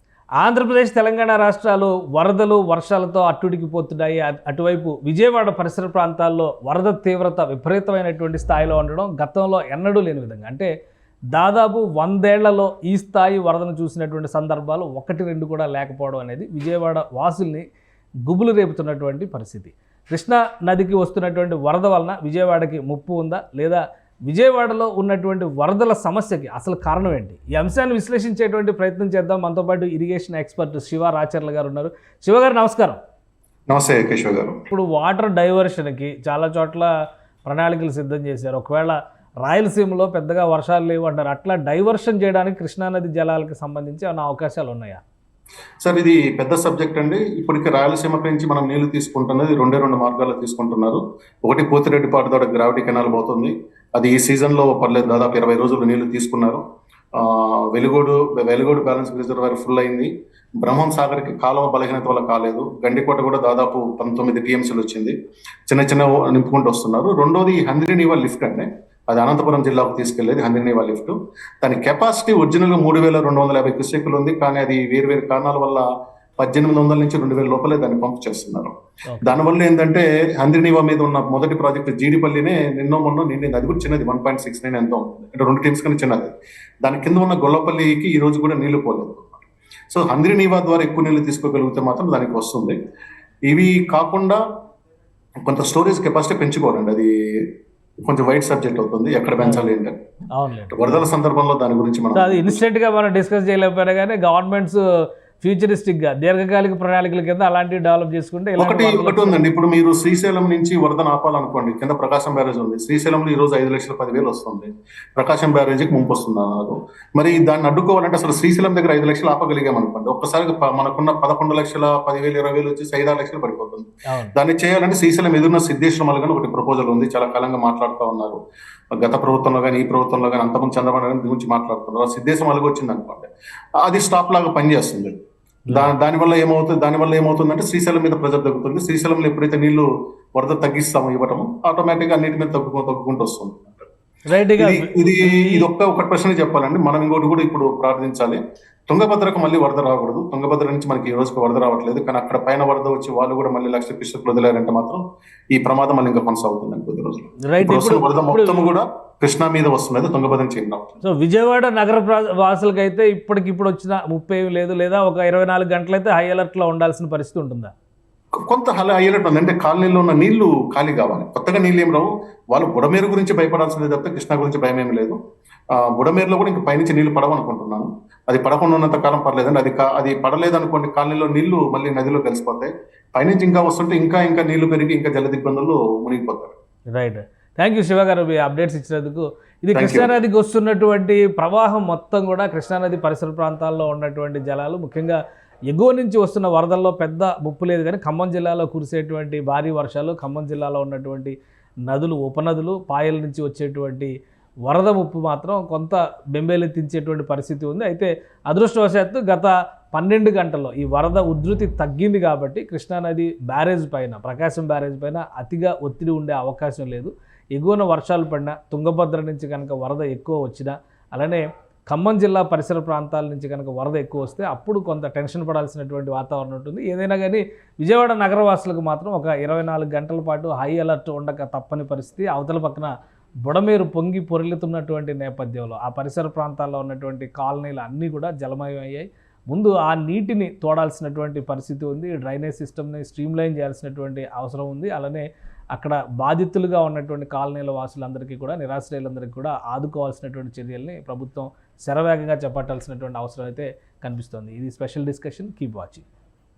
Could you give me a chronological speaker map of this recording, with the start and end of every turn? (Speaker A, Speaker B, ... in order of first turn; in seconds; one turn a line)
Speaker A: 0.4-10.7
Speaker A: 11.3-17.7
Speaker A: 18.3-33.0
Speaker B: 33.7-34.6
Speaker A: 34.7-36.9
Speaker A: 37.5-45.0
Speaker B: 45.8-56.6
Speaker B: 57.2-60.1
Speaker B: 60.6-65.2
Speaker B: 65.7-75.8
Speaker B: 76.4-92.8
Speaker A: 79.1-79.4
Speaker B: 93.5-94.4
Speaker B: 95.4-97.4
Speaker B: 98.0-100.0
Speaker A: 99.4-99.7
Speaker A: 100.3-101.0
Speaker B: 100.7-102.6
Speaker A: 102.2-104.8
Speaker A: 105.4-109.4
Speaker B: 108.6-128.4
Speaker B: 129.0-133.3
Speaker B: 133.8-135.1
Speaker B: 135.7-143.9
Speaker A: 144.3-145.7
Speaker B: 144.6-161.0
Speaker A: 157.5-158.6
Speaker A: 161.0-167.7
Speaker B: 168.5-175.2
Speaker B: 175.7-186.5
Speaker A: 186.9-201.3
Speaker B: 189.7-190.1
Speaker A: 201.9-204.1
Speaker A: 204.7-232.9
Speaker A: 233.4-245.2
Speaker A: 245.7-256.1